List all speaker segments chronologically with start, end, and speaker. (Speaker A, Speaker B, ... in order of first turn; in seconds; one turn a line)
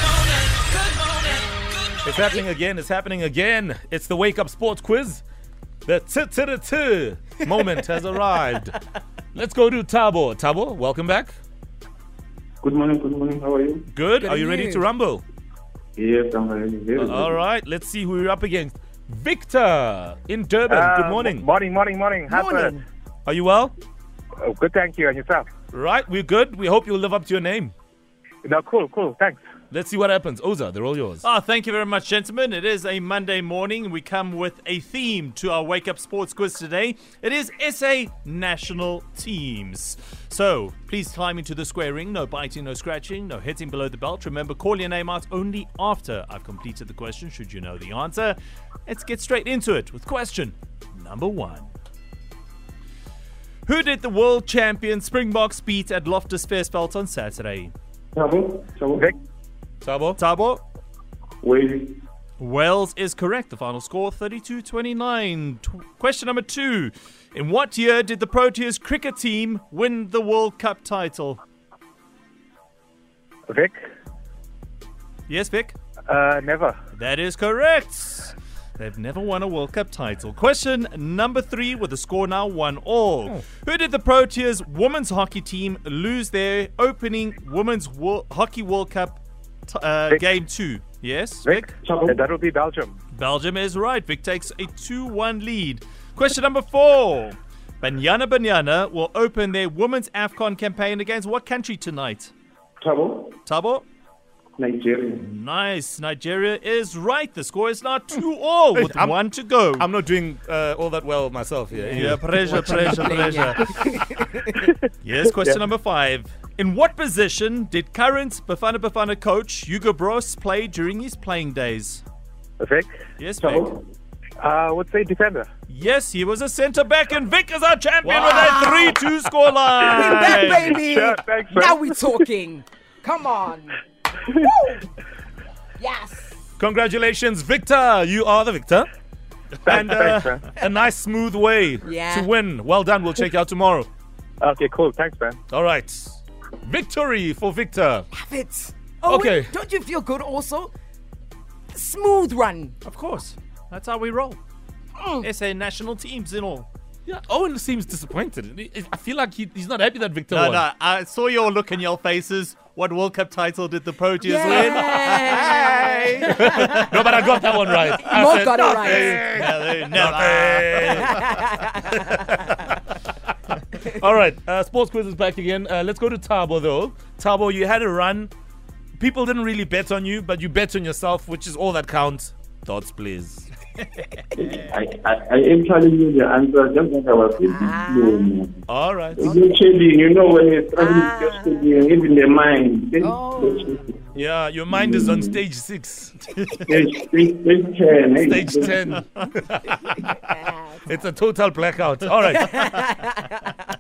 Speaker A: 2.0-5.2
Speaker A: 5.8-8.7
Speaker A: 9.3-11.3
Speaker B: 12.6-13.9
Speaker A: 13.9-15.2
Speaker C: 14.2-14.8
Speaker B: 16.0-17.4
Speaker A: 16.9-21.4
Speaker D: 20.7-22.8
Speaker C: 22.3-22.8
Speaker A: 23.2-23.7
Speaker D: 24.4-25.5
Speaker A: 25.7-27.7
Speaker D: 28.4-29.4
Speaker A: 29.7-31.2
Speaker E: 31.2-51.7
Speaker E: 53.6-57.7
Speaker B: 58.1-59.1
Speaker A: 59.8-60.2
Speaker E: 60.2-60.6
Speaker B: 61.4-62.0
Speaker E: 62.4-71.4
Speaker D: 73.5-73.8
Speaker E: 75.3-75.8
Speaker D: 76.1-76.8
Speaker E: 76.9-91.7
Speaker D: 91.4-92.9
Speaker B: 91.8-92.2
Speaker E: 93.1-102.3
Speaker B: 102.8-103.4
Speaker E: 103.5-103.8
Speaker B: 104.6-105.2
Speaker E: 105.2-109.9
Speaker A: 108.8-112.6
Speaker C: 111.7-114.7
Speaker E: 111.9-113.7
Speaker E: 115.0-122.0
Speaker D: 122.6-122.9
Speaker E: 123.2-123.8
Speaker B: 123.4-123.8
Speaker D: 124.4-125.5
Speaker E: 125.7-130.8
Speaker C: 128.3-129.0
Speaker C: 129.8-134.9
Speaker D: 130.2-131.9
Speaker C: 135.8-136.3
Speaker A: 136.6-138.9
Speaker D: 139.6-140.4
Speaker A: 139.7-143.9
Speaker C: 141.8-142.3
Speaker D: 144.4-145.4
Speaker A: 145.5-148.1
Speaker C: 148.1-150.7
Speaker A: 149.0-149.5
Speaker C: 151.7-152.7
Speaker E: 152.8-154.4
Speaker C: 155.0-155.2
Speaker E: 155.2-156.7
Speaker A: 157.1-160.6
Speaker E: 160.3-166.9
Speaker C: 164.2-167.0
Speaker A: 164.5-165.2
Speaker A: 166.2-172.8
Speaker C: 168.0-169.3
Speaker E: 168.4-171.2
Speaker C: 171.2-171.7
Speaker A: 173.7-178.3
Speaker A: 179.0-183.5
Speaker B: 184.3-188.7
Speaker C: 187.4-188.3
Speaker A: 188.7-189.3
Speaker B: 189.2-193.9
Speaker C: 190.8-191.8
Speaker C: 193.0-193.8
Speaker A: 194.1-196.3
Speaker B: 194.7-195.4
Speaker E: 196.3-196.8
Speaker B: 196.7-198.9
Speaker A: 198.2-200.0
Speaker C: 200.0-200.6
Speaker A: 200.8-202.9
Speaker C: 202.4-203.3